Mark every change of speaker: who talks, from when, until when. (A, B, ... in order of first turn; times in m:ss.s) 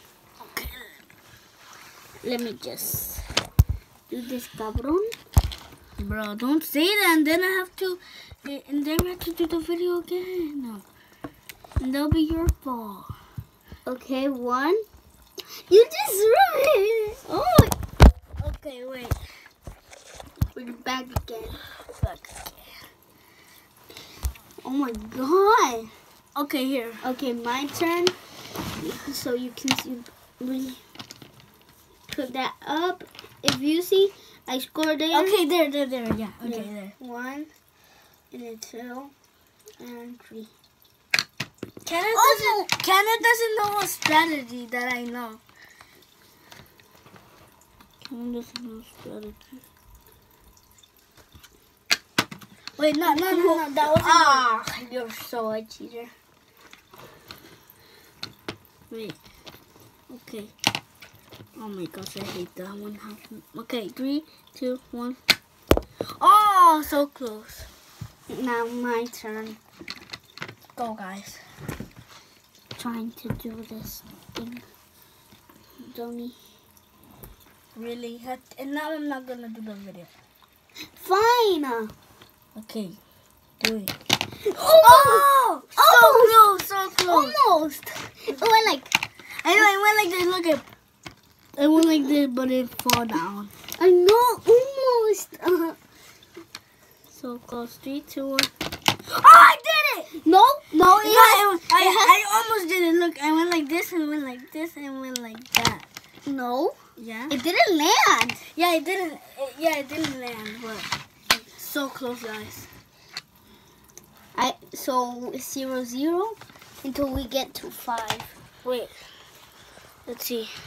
0:02.2-0:03.2 A
0:04.1-0:05.1 A
0:06.0-0:10.8 B
0:11.8-0:13.1 B
0:13.8-0:14.8 A
0:15.7-0:17.7 A
0:18.4-0:19.2 B
0:20.5-0:21.6 A
0:22.0-0:22.7 B
0:24.6-0:25.9 A
0:26.3-0:27.0 B
0:27.0-0:28.2 A
0:28.8-0:30.8 A
0:32.1-0:35.4 A
0:35.1-0:36.9 B
0:36.4-0:37.5 A
0:38.3-0:39.1 A
0:39.8-0:40.5 A
0:41.8-0:45.4 B
0:42.1-0:42.7 A
0:48.0-0:49.5 B
0:52.8-0:54.4 B
0:53.0-0:56.1 A
0:58.9-0:59.2 B
1:00.1-1:00.5 B
1:01.6-1:05.2 B
1:06.2-1:07.7 B
1:08.3-1:09.6 A
1:10.8-1:11.4 B
1:12.8-1:14.7 A
1:15.8-1:16.4 A
1:17.7-1:20.1 B
1:20.9-1:21.9 A
1:22.5-1:23.0 B
1:23.6-1:23.9 B
1:24.4-1:26.4 A
1:24.7-1:27.4 B
1:27.1-1:29.0 A
1:29.4-1:30.6 B
1:31.6-1:33.5 B
1:33.8-1:35.8 A
1:37.1-1:38.5 B
1:39.0-1:40.2 B
1:40.1-1:42.2 A
1:40.9-1:45.9 B
1:46.2-1:46.8 A
1:47.0-1:47.4 B
1:47.3-1:48.4 A
1:48.5-1:52.7 B
1:54.3-1:58.3 A
1:58.6-1:58.9 B
2:00.1-2:00.5 B